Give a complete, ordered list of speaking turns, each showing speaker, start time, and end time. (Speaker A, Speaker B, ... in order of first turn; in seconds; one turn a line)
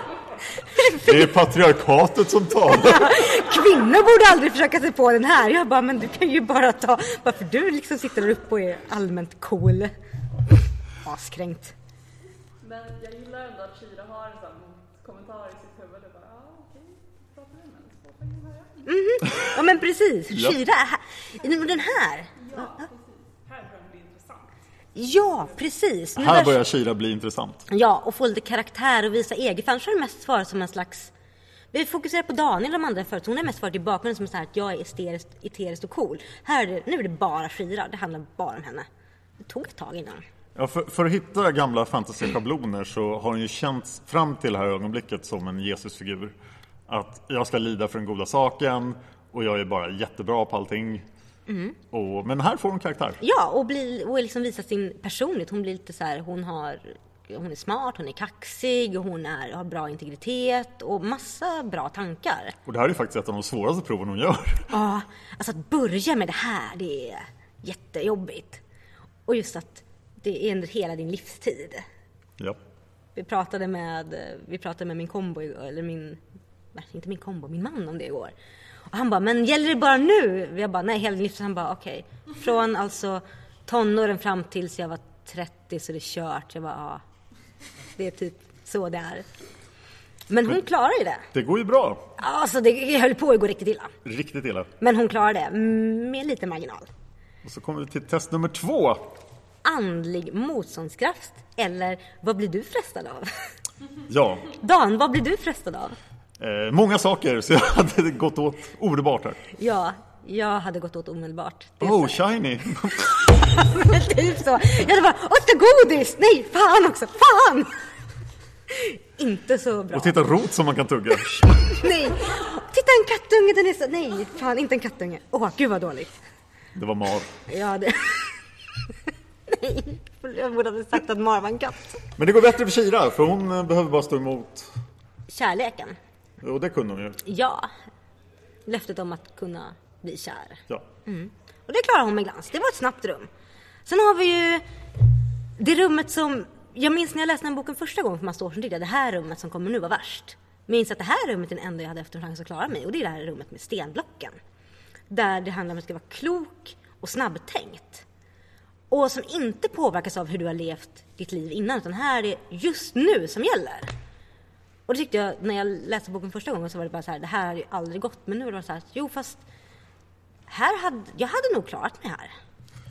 Speaker A: 0.8-1.3
Speaker B: 1.0-3.3
Speaker A: 2.7-9.9
Speaker A: 11.1-11.7
Speaker C: 12.6-18.9
Speaker A: 18.9-22.3
Speaker C: 22.4-24.5
Speaker A: 24.9-26.6
Speaker B: 26.2-27.6
Speaker A: 27.7-31.1
Speaker A: 31.7-38.9
Speaker A: 39.4-40.2
Speaker B: 40.5-46.3
Speaker B: 46.9-51.0
Speaker A: 51.5-51.8
Speaker B: 51.9-53.2
Speaker A: 53.2-62.6
Speaker B: 62.7-64.7
Speaker A: 64.7-68.6
Speaker A: 69.3-71.8
Speaker A: 73.2-76.2
Speaker A: 76.7-78.3
Speaker A: 78.9-87.0
Speaker A: 88.0-89.2
Speaker A: 90.3-91.3
Speaker B: 91.3-92.0
Speaker A: 92.2-93.9
Speaker B: 94.0-94.7
Speaker A: 94.8-96.9
Speaker B: 97.4-99.1
Speaker A: 99.6-103.3
Speaker B: 104.1-104.5
Speaker A: 104.6-106.0
Speaker B: 106.4-109.4
Speaker A: 109.6-112.2
Speaker B: 111.8-113.3
Speaker A: 113.4-117.7
Speaker A: 118.7-120.2
Speaker B: 119.9-121.8
Speaker A: 121.7-126.1
Speaker B: 126.8-127.3
Speaker A: 127.5-128.4
Speaker A: 129.5-132.0
Speaker B: 132.2-134.7
Speaker A: 135.3-136.0
Speaker B: 136.4-137.2
Speaker A: 137.2-137.7
Speaker A: 138.7-143.3
Speaker A: 143.9-144.6
Speaker A: 145.6-154.4
Speaker A: 155.1-158.1
Speaker A: 158.9-163.9
Speaker A: 164.9-169.4
Speaker A: 170.5-172.3